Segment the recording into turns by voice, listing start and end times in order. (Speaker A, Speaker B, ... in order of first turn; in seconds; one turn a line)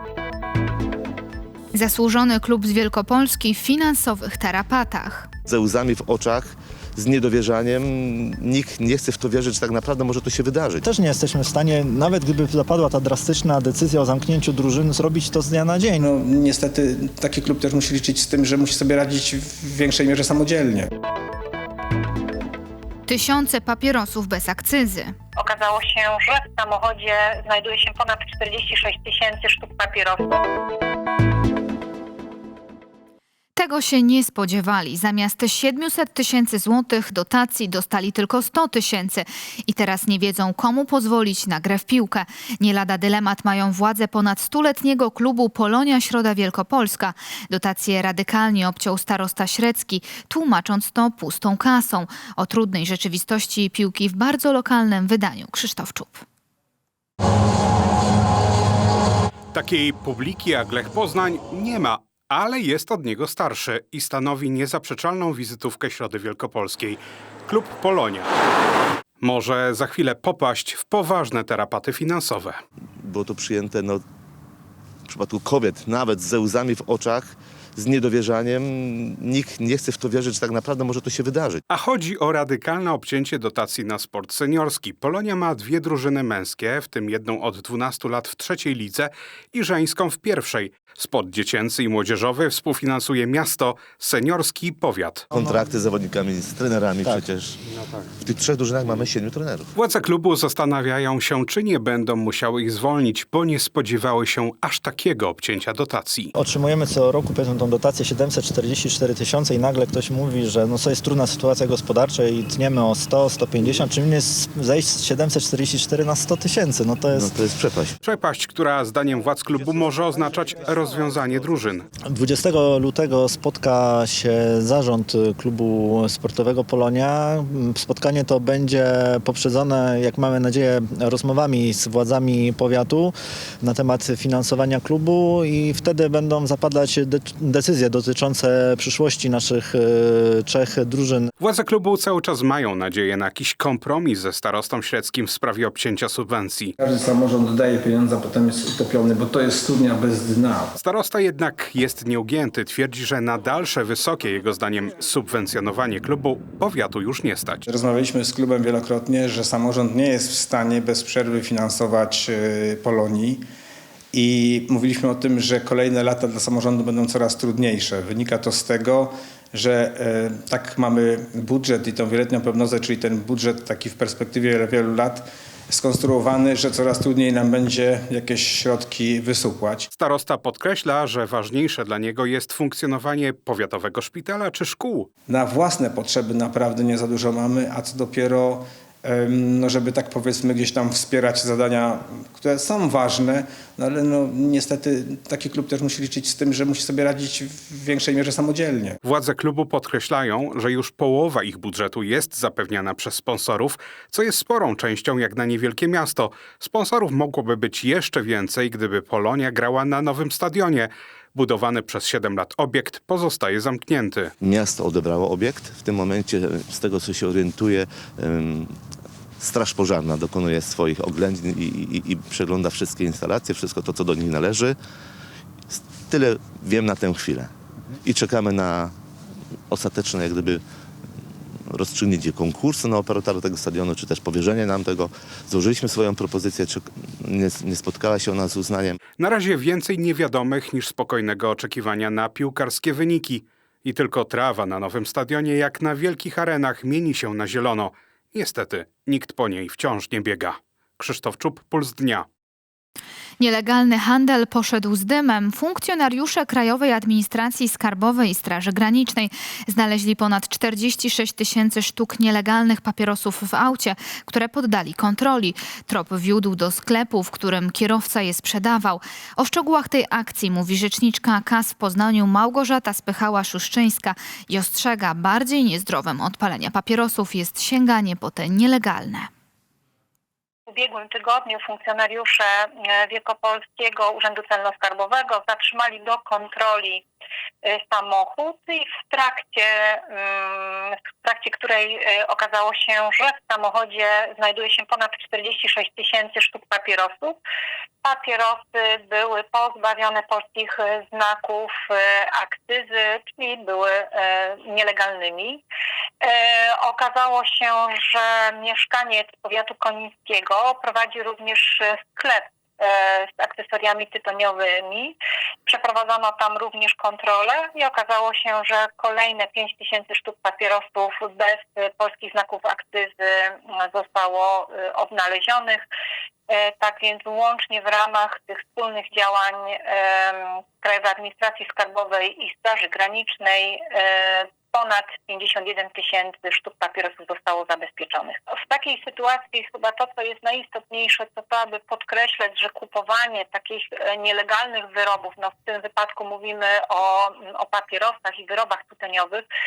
Speaker A: 1.7-5.3
Speaker B: 5.5-10.9
Speaker C: 10.8-16.1
Speaker D: 16.0-20.9
Speaker A: 23.1-25.2
Speaker E: 25.4-30.4
Speaker A: 33.6-56.2
Speaker F: 59.5-68.3
Speaker F: 69.2-72.6
Speaker B: 73.0-74.0
Speaker B: 75.1-81.6
Speaker F: 81.7-95.3
Speaker B: 95.3-97.6
Speaker B: 98.2-99.7
Speaker F: 99.8-106.3
Speaker C: 106.4-117.3
Speaker B: 117.1-118.0
Speaker F: 118.0-121.9
Speaker C: 122.1-141.3
Speaker F: 141.4-146.7
Speaker D: 146.8-150.7
Speaker F: 150.8-157.7
Speaker D: 157.7-163.4
Speaker D: 164.1-179.9
Speaker F: 179.9-185.1
Speaker D: 185.3-199.0
Speaker F: 199.0-214.3
Speaker B: 214.4-218.8
Speaker B: 219.4-224.8
Speaker B: 225.7-227.5
Speaker B: 228.0-228.9
Speaker B: 229.7-230.6
Speaker B: 231.7-239.0
Speaker F: 239.2-252.3
Speaker A: 253.4-279.3
Speaker E: 280.7-287.1
Speaker E: 287.6-297.4
Speaker E: 298.0-305.6
Speaker E: 306.2-325.9
Speaker E: 326.5-349.5